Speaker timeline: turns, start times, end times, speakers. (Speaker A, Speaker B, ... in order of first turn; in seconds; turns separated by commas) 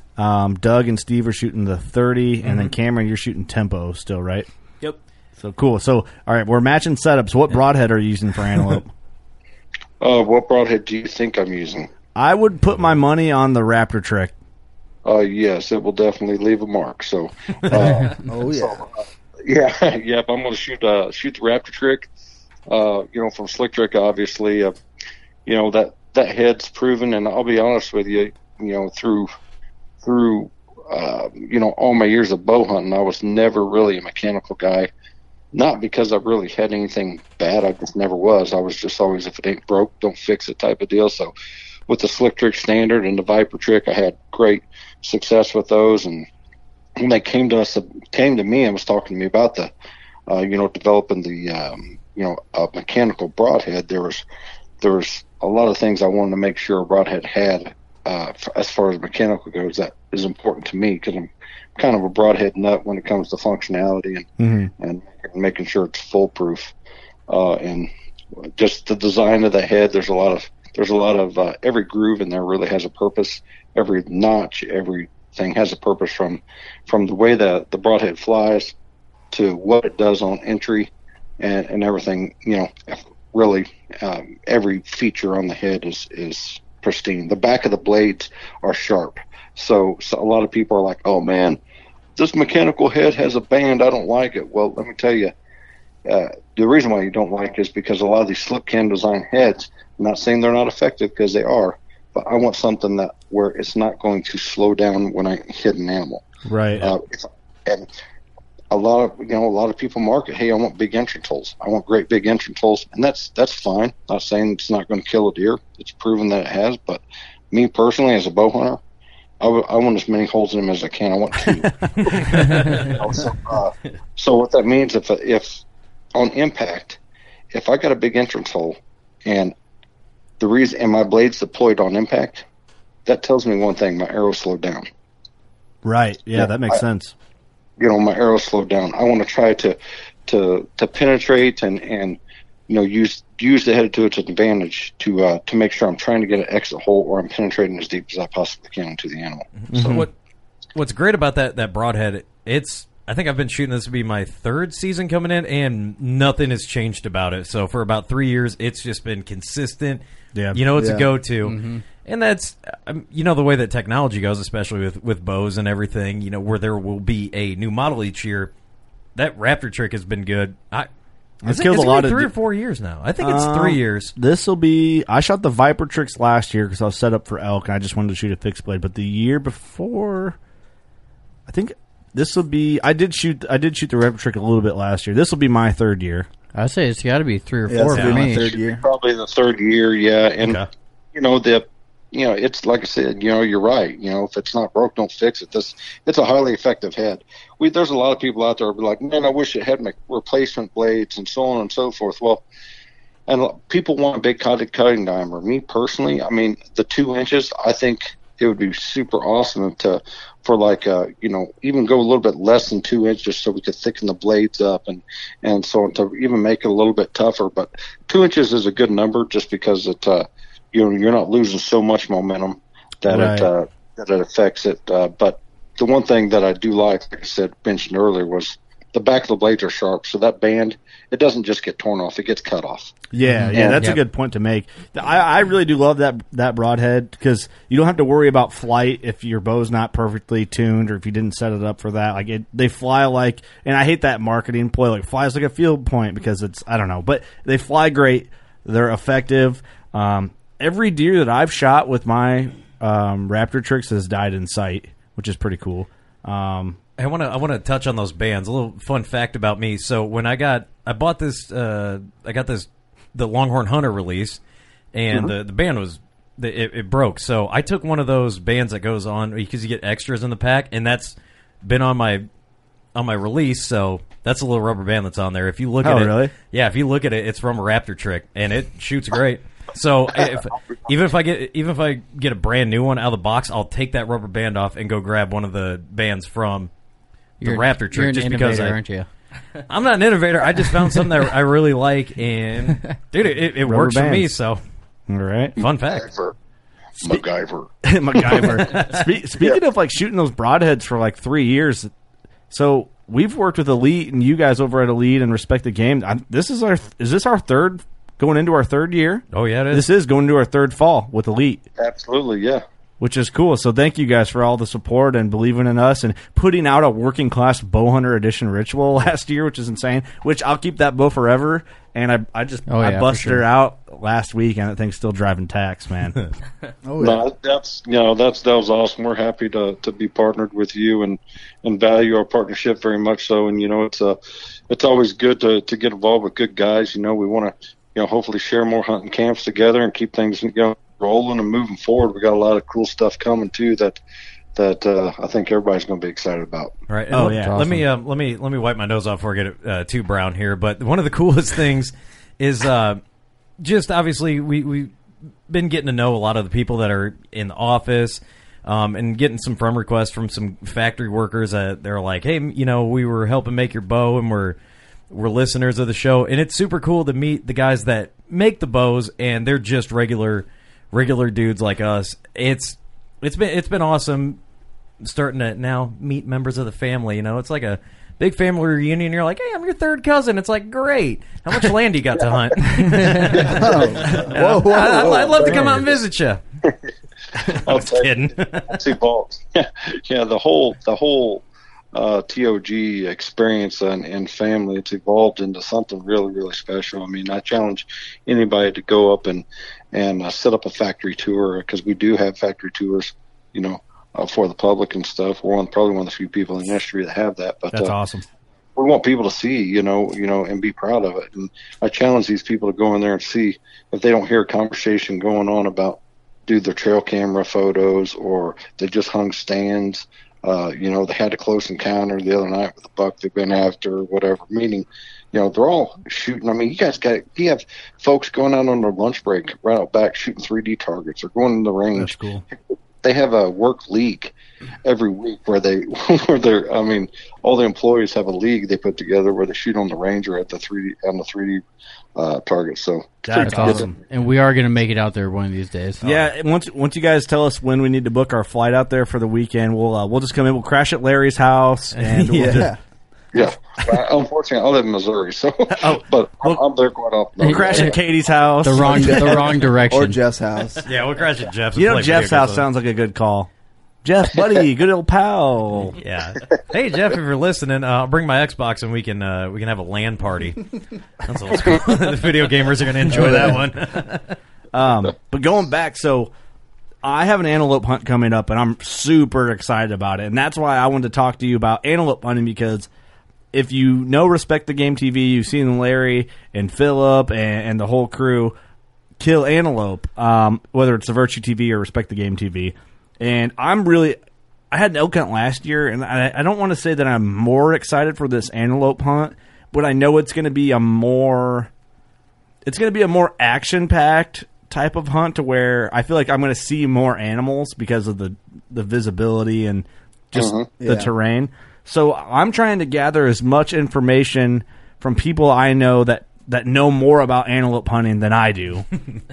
Speaker A: 0.2-4.5, Speaker B: 2.4-2.7, Speaker A: 5.4-8.9, Speaker C: 10.0-11.9, Speaker A: 12.2-14.3, Speaker C: 15.0-22.1, Speaker D: 18.2-18.8, Speaker C: 22.7-24.7, Speaker C: 25.4-29.3, Speaker C: 30.0-34.9, Speaker C: 35.5-41.3, Speaker C: 41.9-46.3, Speaker C: 47.0-49.7, Speaker C: 50.3-54.2, Speaker C: 54.8-66.7, Speaker A: 64.4-64.7, Speaker C: 67.3-67.9, Speaker C: 68.4-78.7, Speaker C: 79.3-91.6, Speaker C: 92.2-95.3, Speaker C: 96.0-106.2, Speaker A: 106.5-106.9, Speaker C: 106.8-107.9, Speaker C: 108.7-118.8, Speaker C: 119.4-125.6, Speaker A: 121.6-122.1, Speaker B: 122.5-122.8, Speaker C: 126.1-127.0, Speaker C: 127.5-129.5, Speaker C: 130.4-132.4, Speaker C: 133.1-134.9, Speaker A: 135.8-137.1, Speaker C: 136.3-136.8, Speaker C: 137.8-142.2, Speaker C: 142.7-150.1, Speaker B: 149.7-150.1, Speaker A: 149.8-150.0, Speaker B: 150.7-160.0, Speaker A: 160.3-160.6, Speaker B: 160.5-168.5, Speaker D: 160.7-161.1, Speaker E: 161.4-161.8, Speaker B: 169.2-170.9, Speaker A: 171.4-172.3, Speaker B: 171.4-174.1, Speaker A: 173.2-180.4, Speaker A: 181.5-186.3, Speaker E: 186.5-188.4, Speaker D: 187.7-188.8, Speaker B: 187.9-188.2, Speaker C: 188.2-190.6, Speaker C: 191.1-202.4, Speaker C: 203.3-232.9, Speaker A: 223.1-223.5, Speaker A: 233.1-256.8, Speaker E: 233.2-234.0, Speaker C: 233.5-233.9, Speaker B: 257.0-264.4, Speaker B: 264.9-272.2, Speaker B: 272.9-286.7, Speaker A: 275.8-276.3, Speaker B: 287.4-288.8, Speaker E: 287.4-289.1, Speaker B: 289.7-294.6, Speaker A: 293.6-294.3, Speaker A: 295.1-295.6, Speaker B: 295.6-296.1, Speaker C: 295.6-296.4, Speaker C: 297.0-297.7, Speaker A: 297.8-301.9, Speaker C: 298.2-298.7, Speaker B: 298.4-299.1, Speaker A: 302.5-311.6, Speaker B: 309.3-309.9, Speaker C: 311.8-312.6, Speaker A: 313.0-326.2, Speaker E: 322.7-323.4, Speaker D: 326.8-327.2, Speaker C: 327.0-334.2, Speaker C: 334.7-344.0, Speaker C: 344.5-346.7, Speaker B: 346.9-353.0, Speaker A: 347.1-347.8, Speaker E: 347.2-347.7, Speaker B: 353.6-354.9, Speaker B: 355.5-364.6, Speaker B: 365.1-374.4, Speaker B: 375.0-386.4, Speaker C: 382.5-384.3, Speaker D: 383.5-385.6, Speaker C: 384.9-386.0, Speaker B: 387.4-388.8, Speaker C: 387.5-407.9, Speaker A: 407.7-408.2, Speaker C: 408.8-434.3, Speaker A: 431.9-432.4, Speaker C: 434.8-441.6, Speaker C: 442.2-443.9, Speaker A: 443.2-443.9, Speaker E: 443.4-446.0, Speaker A: 446.0-452.7, Speaker B: 451.9-452.7, Speaker D: 452.4-452.8, Speaker C: 453.3-458.0, Speaker A: 455.7-456.6, Speaker E: 457.4-457.9, Speaker A: 457.4-459.4, Speaker E: 458.6-460.2, Speaker D: 459.0-460.9, Speaker B: 460.8-462.6, Speaker A: 461.8-463.5, Speaker A: 464.0-466.0, Speaker B: 465.9-474.3, Speaker A: 473.1-474.2, Speaker A: 474.7-476.3, Speaker A: 477.0-482.9, Speaker A: 483.5-488.5, Speaker A: 489.2-494.2, Speaker A: 494.7-501.7, Speaker A: 502.6-518.9, Speaker C: 510.3-510.7, Speaker D: 510.8-511.1